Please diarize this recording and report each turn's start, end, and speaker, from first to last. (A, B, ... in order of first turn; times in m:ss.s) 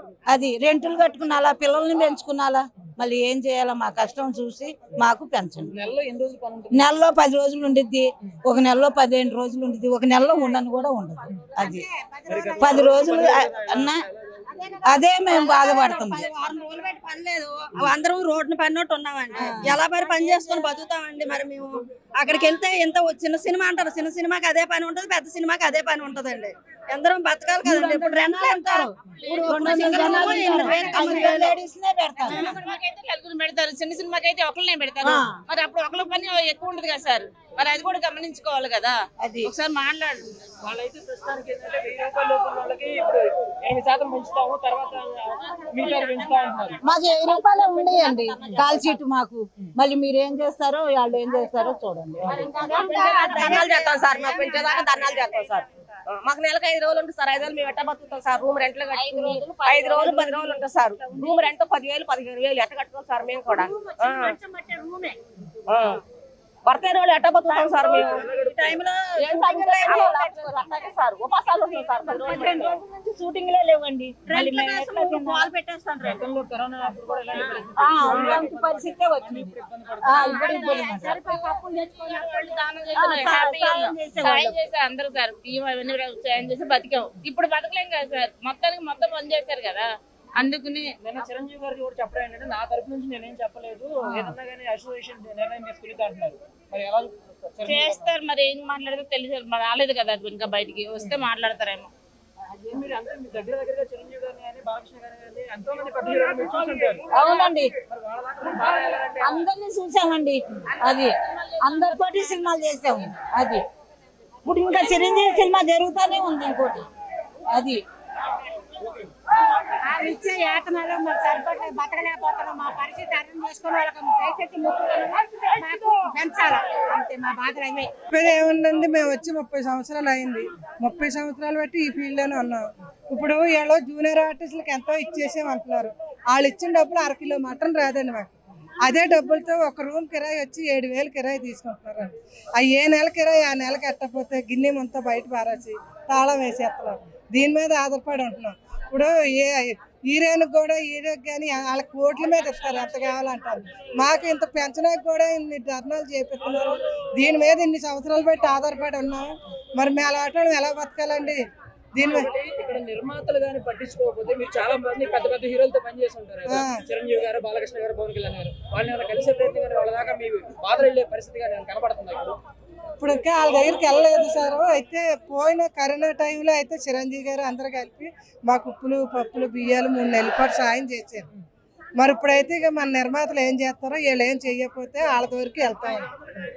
0:00.3-0:05.7 A
0:05.7-0:06.9 B
0:06.7-0:11.9 A
0:11.6-0:12.9 C
0:12.3-0:14.4 B
0:12.6-0:14.0 A
0:14.5-0:16.3 C
0:14.8-0:16.3 A
0:15.5-0:31.6 D
0:19.3-0:19.8 A
0:27.6-0:28.9 A
0:29.2-0:31.3 E
0:29.4-0:32.5 A
0:32.3-0:40.3 E
0:35.0-0:35.3 A
0:39.2-0:39.5 A
0:40.6-0:46.8 B
0:46.8-0:52.9 A
0:47.7-0:49.0 F
0:52.5-0:54.5 C
0:52.8-0:53.3 E
0:52.9-1:00.5 F
0:53.5-0:54.6 D
0:58.9-1:00.6 E
1:00.1-1:01.0 D
1:01.1-1:04.2 F
1:03.4-1:05.2 C
1:06.7-1:10.7 D
1:06.8-1:08.3 F
1:07.8-1:08.8 B
1:09.2-1:10.7 E
1:09.7-1:10.2 F
1:10.7-1:12.7 F
1:12.1-1:15.5 A
1:12.4-1:12.7 E
1:14.3-1:16.2 D
1:16.0-1:20.4 B
1:17.8-1:21.2 A
1:20.2-1:31.0 E
1:20.3-1:22.6 C
1:23.0-1:24.6 A
1:31.0-1:38.0 B
1:37.6-1:41.9 E
1:42.4-1:47.2 B
1:47.1-1:47.7 A
1:47.8-1:49.4 B
1:49.2-1:53.6 A
1:50.8-1:52.4 E
1:54.4-1:56.8 A
1:57.5-1:57.8 A
1:59.8-2:07.9 C
2:08.1-2:18.3 G
2:18.8-2:41.4 G
2:41.9-2:42.3 G
2:42.0-2:52.4 B
2:46.4-2:46.8 G
2:53.0-3:01.3 G
3:02.0-3:06.1 G